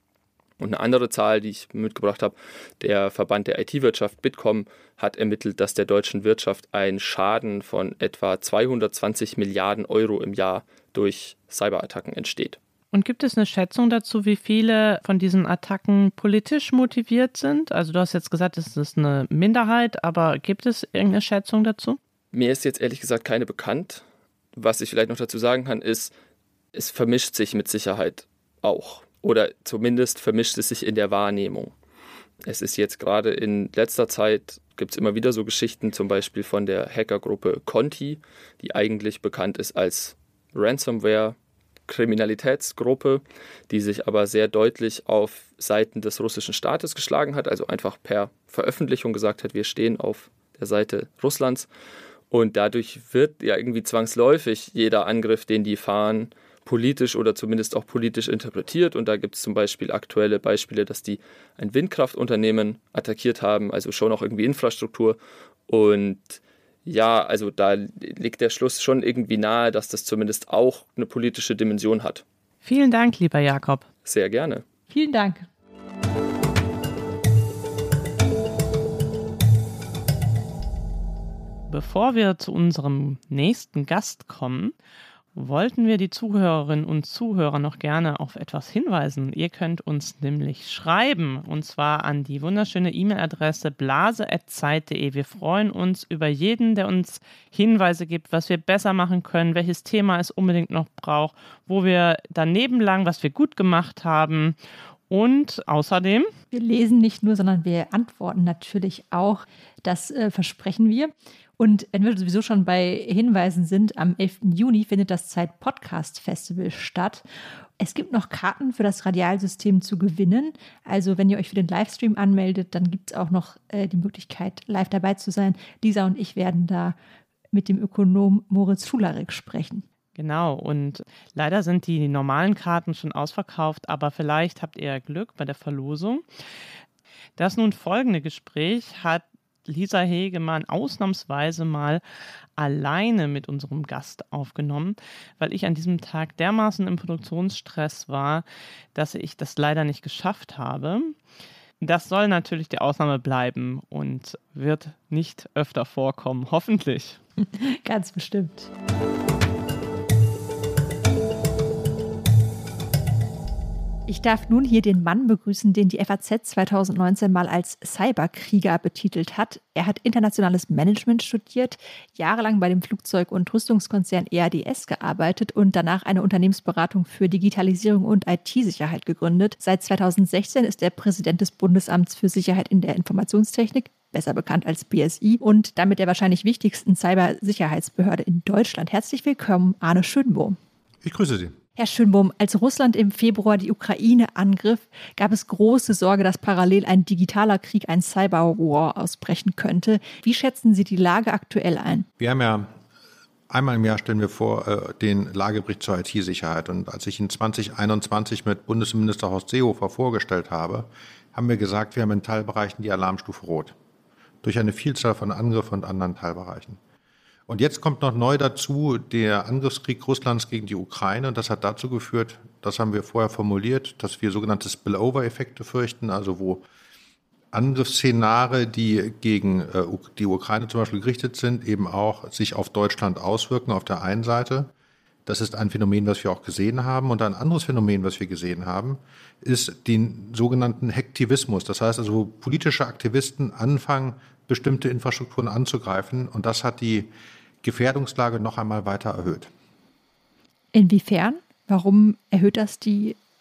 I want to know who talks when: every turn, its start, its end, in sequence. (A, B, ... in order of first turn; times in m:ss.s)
0:00.6-0:12.6 A
0:12.9-0:22.0 B
0:22.3-0:24.0 A
0:24.6-0:26.1 A
0:26.7-0:31.7 A
0:32.4-0:41.4 A
0:41.9-0:51.7 A
0:52.3-1:05.2 A
1:05.7-1:12.2 A
1:12.6-1:13.9 B
1:14.0-1:14.6 A
1:14.9-1:15.5 C
1:21.7-1:24.8 B
1:25.4-1:44.6 B
1:45.1-1:46.3 B
1:46.5-1:57.2 C
1:57.8-2:07.0 C
2:07.5-2:09.8 C
2:10.2-2:16.2 B
2:17.4-2:22.0 B
2:22.6-2:31.2 B
2:31.8-2:37.2 B
2:37.4-2:38.7 C
2:44.1-3:10.6 C
3:11.0-3:11.6 D
3:11.8-3:22.1 C
3:22.2-3:22.7 D
3:23.5-3:33.8 D
3:34.4-3:36.8 D
3:37.5-3:46.6 D
3:47.5-3:54.7 D
3:55.3-4:07.1 D
4:07.6-4:09.5 D
4:10.7-4:13.2 C